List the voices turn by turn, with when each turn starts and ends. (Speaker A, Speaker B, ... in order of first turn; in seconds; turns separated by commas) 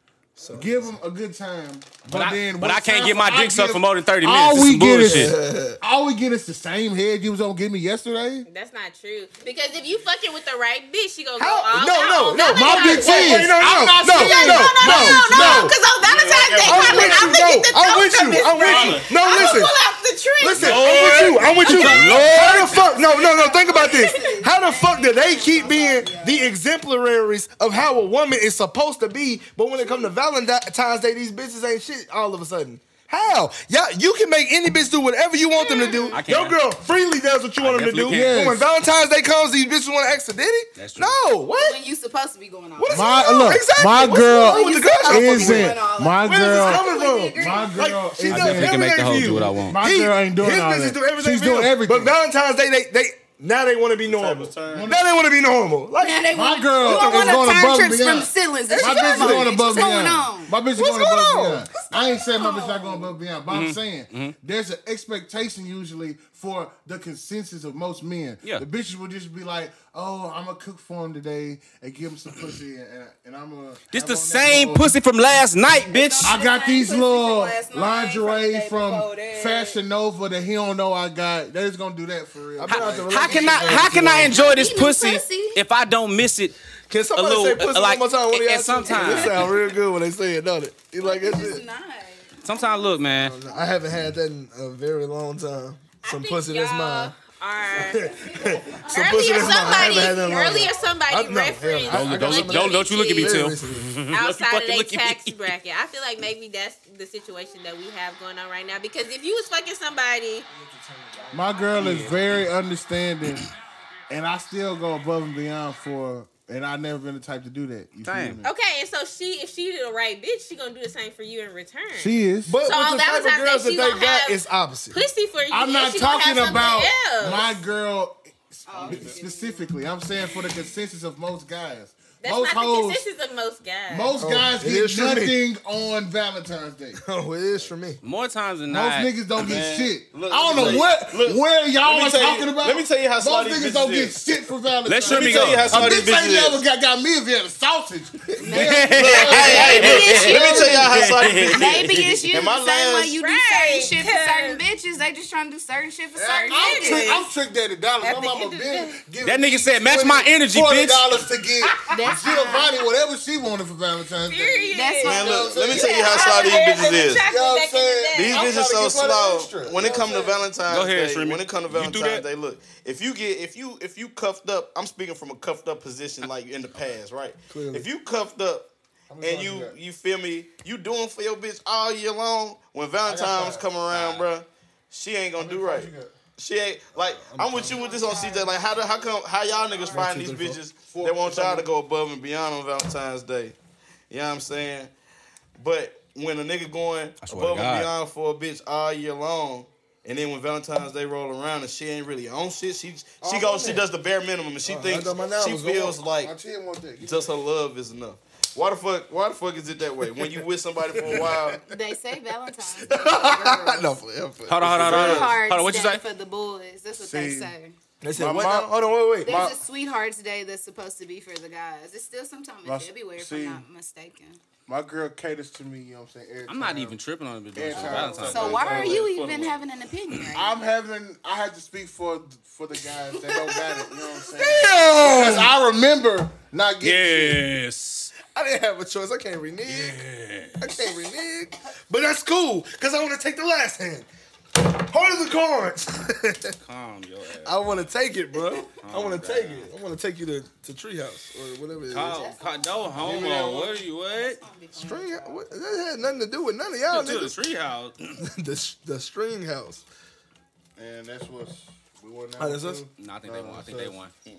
Speaker A: 0.4-0.9, Speaker B: 0.5-8.5, Speaker C: 2.1-5.3, Speaker A: 5.0-5.8, Speaker D: 8.4-13.6, Speaker A: 11.4-15.8, Speaker B: 12.5-15.8, Speaker E: 14.2-26.5, Speaker D: 14.3-20.1, Speaker F: 16.0-17.2, Speaker A: 16.6-19.7, Speaker F: 18.6-19.1, Speaker A: 20.4-41.8, Speaker C: 20.6-22.8, Speaker D: 21.7-22.2, Speaker D: 23.8-24.4, Speaker E: 29.8-30.1, Speaker D: 35.6-36.2, Speaker E: 35.6-36.1, Speaker C: 36.1-36.6, Speaker C: 37.6-38.5, Speaker B: 38.1-38.7, Speaker C: 40.8-41.2, Speaker E: 41.6-43.5, Speaker A: 42.8-56.3, Speaker B: 42.9-48.8, Speaker E: 44.1-48.0, Speaker C: 48.3-49.8, Speaker B: 49.5-52.2, Speaker F: 54.0-55.0, Speaker B: 54.7-55.0, Speaker E: 56.0-63.1, Speaker B: 56.3-75.0, Speaker A: 56.8-57.4, Speaker A: 58.7-59.5, Speaker A: 60.8-61.6, Speaker C: 63.5-64.3, Speaker C: 73.9-76.4, Speaker E: 75.9-79.8, Speaker B: 76.2-84.0, Speaker A: 82.6-84.3, Speaker C: 82.7-86.6, Speaker E: 84.2-85.6, Speaker A: 86.9-91.6, Speaker C: 87.1-89.6, Speaker E: 88.8-89.5, Speaker E: 91.0-93.7, Speaker C: 92.4-93.3, Speaker A: 93.1-97.2, Speaker D: 96.0-98.2, Speaker A: 97.7-104.0, Speaker E: 98.0-100.9, Speaker D: 98.9-103.5, Speaker C: 101.9-105.4, Speaker D: 104.1-110.5, Speaker A: 110.5-111.9, Speaker B: 111.3-113.5, Speaker C: 111.8-112.4, Speaker B: 114.1-118.5, Speaker C: 118.0-118.4, Speaker D: 118.4-127.5, Speaker B: 122.0-122.5, Speaker A: 122.5-125.0, Speaker B: 125.5-133.0, Speaker E: 128.7-129.8, Speaker F: 128.8-129.2, Speaker D: 132.2-134.2, Speaker B: 133.9-137.0, Speaker A: 134.2-135.4, Speaker A: 137.0-138.0, Speaker C: 138.0-139.1, Speaker B: 138.7-150.2, Speaker F: 139.4-144.2, Speaker C: 144.9-145.9, Speaker F: 145.0-146.6, Speaker E: 148.4-157.2, Speaker C: 148.5-152.3, Speaker F: 148.9-153.2, Speaker D: 153.2-154.6, Speaker B: 156.2-166.4, Speaker D: 156.4-157.3, Speaker D: 158.0-159.0, Speaker C: 159.2-161.2, Speaker E: 161.9-162.7, Speaker D: 164.2-168.6, Speaker E: 164.7-165.9, Speaker F: 165.0-167.2, Speaker B: 167.2-170.1, Speaker F: 168.1-178.7, Speaker A: 170.0-170.3, Speaker C: 170.7-172.2, Speaker A: 177.5-177.9, Speaker B: 179.1-179.8, Speaker F: 179.2-193.6, Speaker B: 183.0-183.7, Speaker C: 183.9-184.2, Speaker B: 185.4-186.1, Speaker A: 185.4-185.9, Speaker A: 187.1-187.9, Speaker E: 187.7-190.1, Speaker A: 189.8-191.6, Speaker B: 190.9-191.7, Speaker F: 194.1-194.9, Speaker F: 195.6-206.3, Speaker C: 197.2-197.9, Speaker A: 203.2-203.8, Speaker A: 204.6-206.0, Speaker B: 206.2-207.3, Speaker F: 207.0-211.6, Speaker A: 211.0-211.5, Speaker E: 211.7-214.0, Speaker A: 212.8-215.3, Speaker C: 214.5-216.0, Speaker E: 214.9-217.8, Speaker B: 216.9-217.5, Speaker A: 218.0-219.4, Speaker B: 218.2-219.6, Speaker E: 219.2-224.4, Speaker B: 222.7-223.6, Speaker B: 224.7-227.0, Speaker C: 226.5-228.7, Speaker B: 227.5-229.1, Speaker E: 227.7-230.5, Speaker F: 228.3-229.6, Speaker B: 230.3-237.4, Speaker E: 233.2-234.0, Speaker A: 234.4-235.4, Speaker C: 236.8-238.1, Speaker A: 238.3-240.0, Speaker C: 239.7-240.8, Speaker A: 240.6-246.6, Speaker C: 246.6-247.7, Speaker A: 247.4-252.3, Speaker C: 248.8-249.7, Speaker C: 251.9-254.4, Speaker E: 251.9-255.6, Speaker A: 253.0-253.7, Speaker A: 254.8-257.4, Speaker C: 256.9-258.2, Speaker A: 258.2-259.8, Speaker B: 260.8-264.0, Speaker A: 262.4-262.8, Speaker C: 263.0-264.1